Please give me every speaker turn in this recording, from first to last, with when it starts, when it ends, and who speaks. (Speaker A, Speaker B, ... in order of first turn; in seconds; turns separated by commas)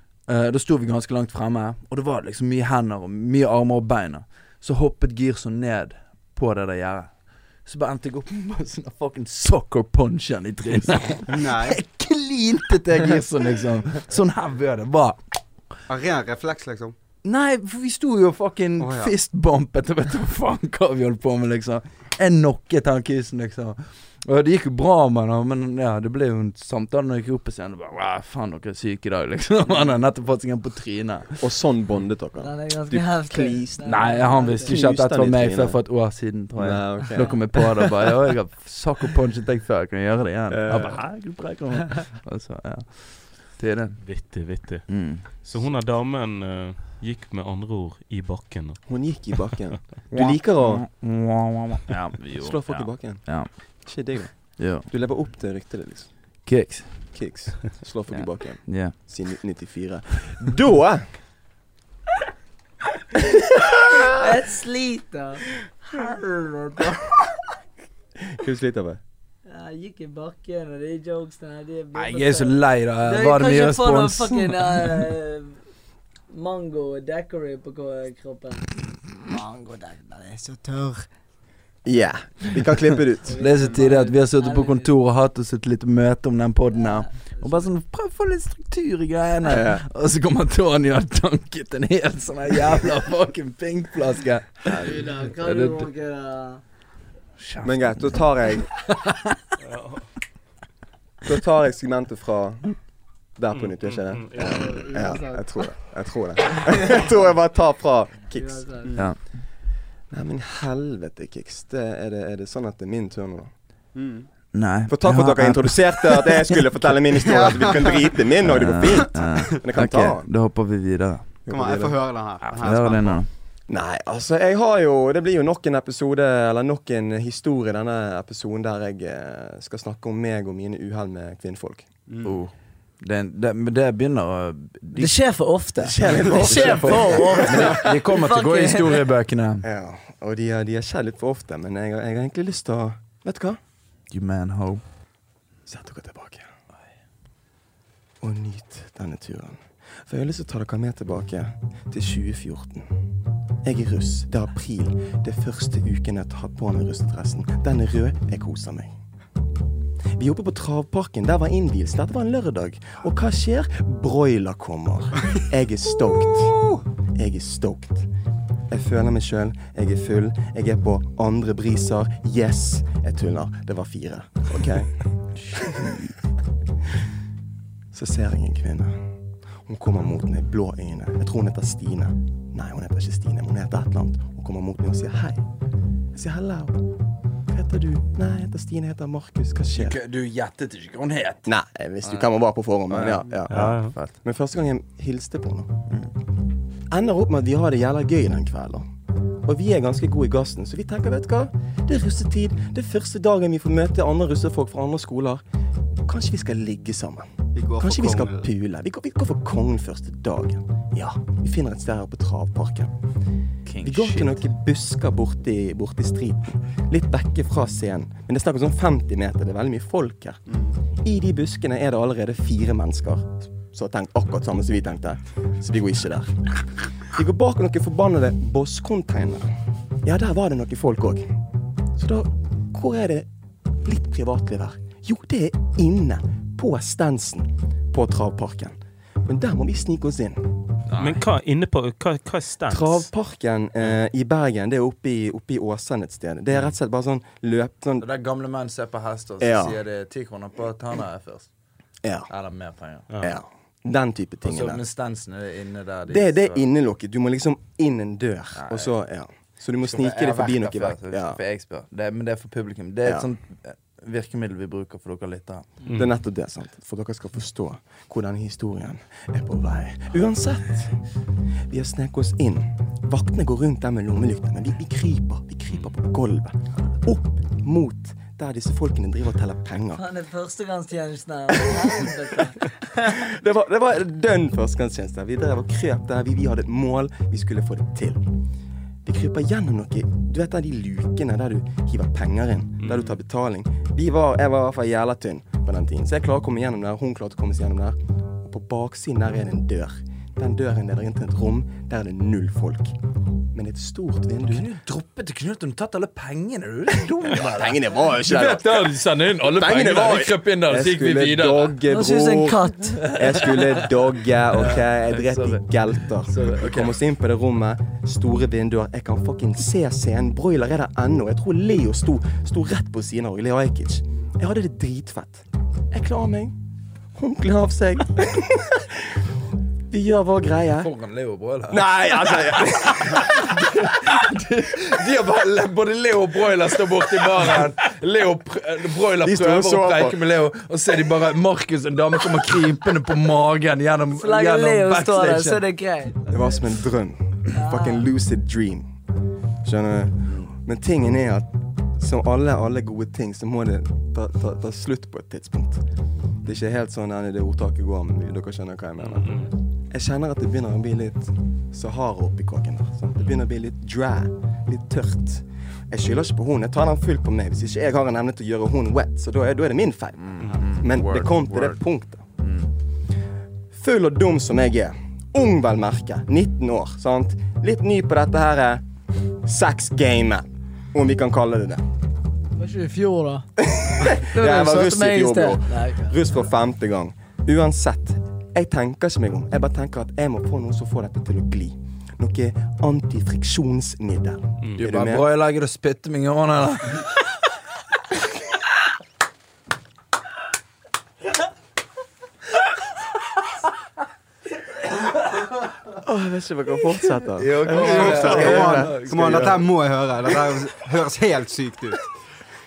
Speaker A: 0.2-15.7, Speaker B: 11.3-11.8, Speaker B: 15.9-16.9, Speaker A: 17.2-31.4, Speaker B: 18.8-19.1, Speaker C: 31.4-35.8, Speaker D: 32.4-34.8, Speaker A: 33.9-44.2, Speaker C: 36.5-37.7, Speaker C: 40.5-41.1, Speaker E: 44.0-49.5, Speaker A: 44.9-45.2, Speaker C: 48.9-50.9, Speaker A: 50.1-53.5, Speaker C: 52.4-61.2, Speaker A: 54.6-54.9, Speaker A: 56.4-57.2, Speaker A: 58.1-59.0, Speaker D: 64.1-67.4, Speaker C: 68.4-69.0, Speaker D: 69.5-75.6, Speaker A: 72.0-75.0, Speaker D: 76.3-81.1, Speaker C: 81.8-83.6, Speaker D: 83.2-84.9, Speaker A: 83.4-95.9, Speaker D: 86.8-87.7, Speaker C: 89.5-89.8, Speaker D: 94.7-96.6, Speaker A: 97.4-98.2, Speaker C: 97.6-98.8, Speaker A: 98.9-99.3, Speaker E: 99.6-100.1, Speaker C: 101.2-109.4, Speaker E: 103.5-104.7, Speaker D: 104.4-105.7, Speaker D: 106.7-107.0, Speaker D: 108.3-109.0, Speaker B: 108.8-109.1, Speaker A: 109.0-109.4, Speaker C: 110.1-113.8, Speaker B: 113.9-114.3, Speaker A: 114.5-117.0, Speaker C: 114.9-120.4, Speaker B: 117.3-118.2, Speaker A: 118.4-121.5, Speaker B: 118.9-119.6, Speaker C: 121.5-122.0, Speaker B: 121.5-123.3, Speaker A: 122.4-123.3, Speaker C: 123.7-132.0, Speaker B: 132.1-132.4, Speaker A: 132.2-135.3, Speaker D: 135.0-139.1, Speaker C: 135.8-137.9, Speaker A: 136.4-139.7, Speaker C: 139.6-143.6, Speaker A: 144.1-144.9, Speaker C: 145.7-146.5, Speaker C: 148.2-152.9, Speaker C: 153.6-158.9, Speaker C: 160.2-166.6, Speaker C: 167.2-168.1, Speaker C: 168.7-175.2, Speaker A: 175.4-176.1, Speaker C: 177.9-179.0, Speaker C: 179.7-185.4, Speaker C: 186.1-186.8, Speaker C: 187.5-190.0, Speaker A: 189.8-194.1, Speaker C: 191.5-195.7, Speaker E: 193.5-193.9, Speaker C: 196.9-198.9, Speaker C: 199.4-205.4, Speaker C: 206.1-212.9, Speaker B: 207.5-208.5, Speaker A: 213.7-214.4, Speaker C: 213.8-220.4, Speaker C: 221.0-231.3, Speaker C: 231.9-233.3, Speaker C: 233.8-240.6, Speaker A: 240.9-241.2, Speaker E: 241.0-243.1, Speaker C: 242.7-248.1, Speaker A: 248.0-251.5, Speaker C: 249.4-249.8, Speaker C: 252.0-252.3, Speaker A: 252.3-253.1, Speaker E: 253.1-253.4, Speaker C: 253.2-254.8, Speaker A: 254.4-256.7, Speaker C: 256.1-261.4, Speaker A: 258.6-258.9, Speaker A: 259.8-265.8, Speaker E: 265.9-266.2, Speaker C: 265.9-271.0, Speaker C: 271.7-280.0, Speaker D: 279.9-283.2, Speaker C: 281.7-282.1, Speaker C: 283.1-288.2, Speaker C: 289.0-303.0, Speaker E: 292.8-293.2, Speaker C: 303.5-304.7, Speaker A: 304.5-311.8, Speaker C: 307.3-308.9, Speaker C: 309.4-326.5, Speaker D: 311.9-313.0, Speaker A: 313.0-317.0, Speaker C: 327.1-329.2, Speaker C: 329.9-330.9, Speaker A: 330.8-345.6, Speaker C: 331.7-333.7, Speaker C: 339.2-340.2, Speaker D: 344.1-346.3, Speaker C: 346.3-348.9, Speaker D: 347.5-348.1, Speaker C: 349.6-355.8, Speaker C: 356.4-372.2, Speaker E: 359.0-359.5, Speaker A: 370.2-371.8, Speaker A: 372.4-372.7, Speaker C: 373.7-378.8, Speaker C: 379.4-381.8, Speaker D: 382.6-386.2, Speaker C: 383.7-395.3, Speaker E: 394.6-394.9, Speaker A: 394.8-397.1, Speaker A: 404.9-405.5, Speaker C: 406.0-409.6, Speaker A: 407.2-409.6, Speaker B: 407.7-412.0